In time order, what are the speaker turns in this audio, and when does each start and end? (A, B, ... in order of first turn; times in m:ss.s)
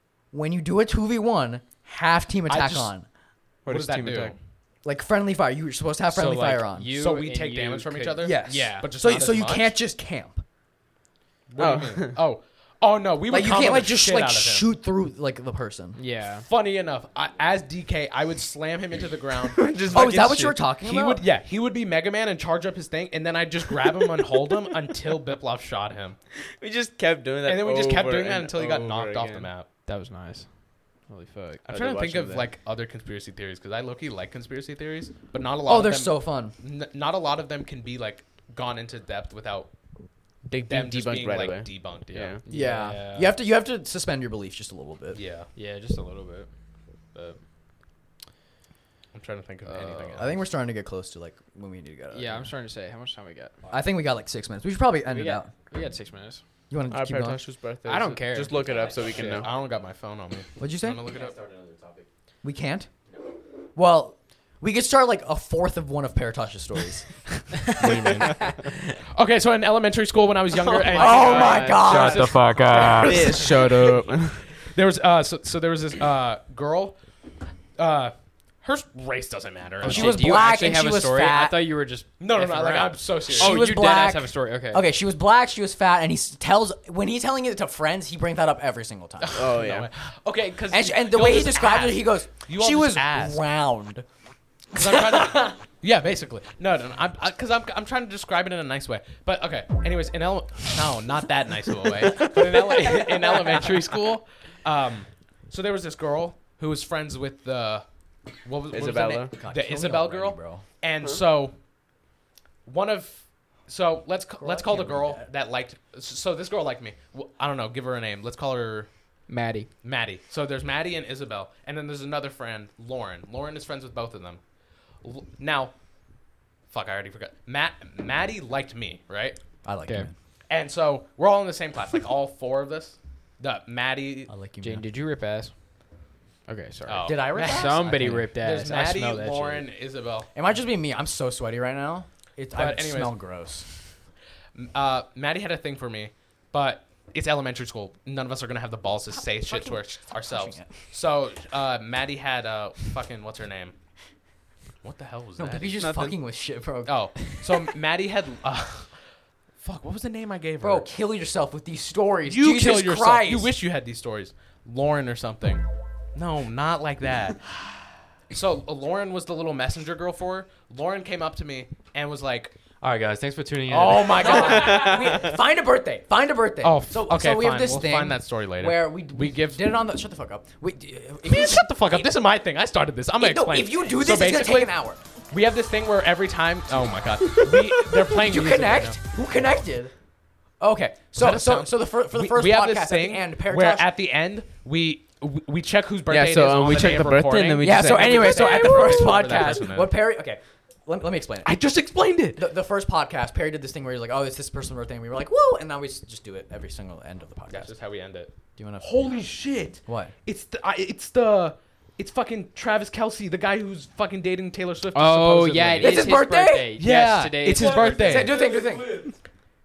0:00.3-0:03.1 A
0:02.5-0:02.9 B
0:03.6-0:04.4 C
0:03.7-0:04.4 B
0:04.8-0:06.9 A
0:06.1-0:08.9 D
0:06.9-0:09.7 B
0:08.2-0:10.4 A
0:11.5-0:14.7 B
0:11.6-0:12.2 C
0:13.3-0:16.0 A
0:16.0-0:16.5 D
0:16.4-0:20.3 B
0:19.5-0:20.6 C
0:19.9-0:21.3 A
0:20.8-0:26.2 B
0:26.5-0:29.5 C
0:27.4-0:29.7 B
0:29.8-0:31.7 D
0:31.7-0:32.5 C
0:31.7-0:39.7 B
0:35.6-0:36.5 A
0:40.4-0:42.4 C
0:40.7-0:42.4 B
0:42.4-0:43.4 D
0:42.5-0:45.2 A
0:45.1-0:45.5 B
0:45.5-0:46.5 D
0:47.1-0:47.4 D
0:49.1-0:50.4 B
0:49.7-0:50.0 E
0:50.2-0:52.5 A
0:52.1-0:53.6 D
0:53.7-0:55.5 A
0:55.0-0:56.4 D
0:56.7-0:57.4 A
0:56.9-0:59.5 C
0:57.8-0:59.5 D
0:59.0-1:01.4 B
1:00.6-1:01.1 A
1:01.0-1:02.1 E
1:02.4-1:02.9 A
1:03.8-1:07.9 A
1:07.8-1:08.4 B
1:07.8-1:08.7 C
1:09.1-1:17.0 B
1:10.5-1:14.4 C
1:11.0-1:13.7 A
1:12.0-1:13.1 D
1:17.8-1:20.6 B
1:19.8-1:24.9 D
1:19.8-1:21.6 A
1:22.2-1:23.6 B
1:23.3-1:29.6 A
1:29.2-1:33.4 B
1:29.3-1:29.9 C
1:30.7-1:34.0 A
1:34.7-1:35.6 A
1:34.7-1:47.8 B
1:48.4-1:51.6 B
1:48.7-1:49.3 C
1:49.3-1:50.6 A
1:52.6-1:58.9 B
1:54.4-1:55.3 A
1:59.3-1:59.7 D
1:59.8-2:04.4 B
2:05.0-2:05.7 B
2:06.7-2:09.4 B
2:09.6-2:10.1 A
2:10.5-2:14.3 B
2:14.3-2:14.8 A
2:14.6-2:15.6 D
2:16.5-2:19.7 D
2:16.9-2:20.3 B
2:17.0-2:18.3 A
2:20.3-2:23.7 A
2:22.5-2:23.2 B
2:24.5-2:33.7 B
2:29.1-2:30.8 A
2:34.8-2:35.9 B
2:35.4-2:37.2 A
2:35.8-2:36.2 C
2:36.8-2:39.0 B
2:39.6-2:40.9 B
2:40.6-2:43.5 A
2:42.2-2:45.6 B
2:46.1-2:47.5 B
2:48.3-2:52.5 B
2:52.8-2:55.1 E
2:53.7-2:55.2 B
2:54.2-3:02.1 A
2:56.6-2:59.8 B
3:01.2-3:04.7 B
3:03.2-3:05.0 A
3:05.3-3:09.0 B
3:07.8-3:09.9 A
3:10.6-3:13.9 A
3:11.1-3:19.9 B
3:16.1-3:19.4 C
3:17.6-3:21.6 A
3:21.4-3:22.5 B
3:22.4-3:27.7 A
3:27.5-3:36.1 B
3:28.6-3:29.2 A
3:29.8-3:30.1 A
3:34.9-3:37.9 D
3:35.8-3:36.7 A
3:36.8-3:38.4 B
3:37.4-3:39.2 E
3:37.9-3:39.0 A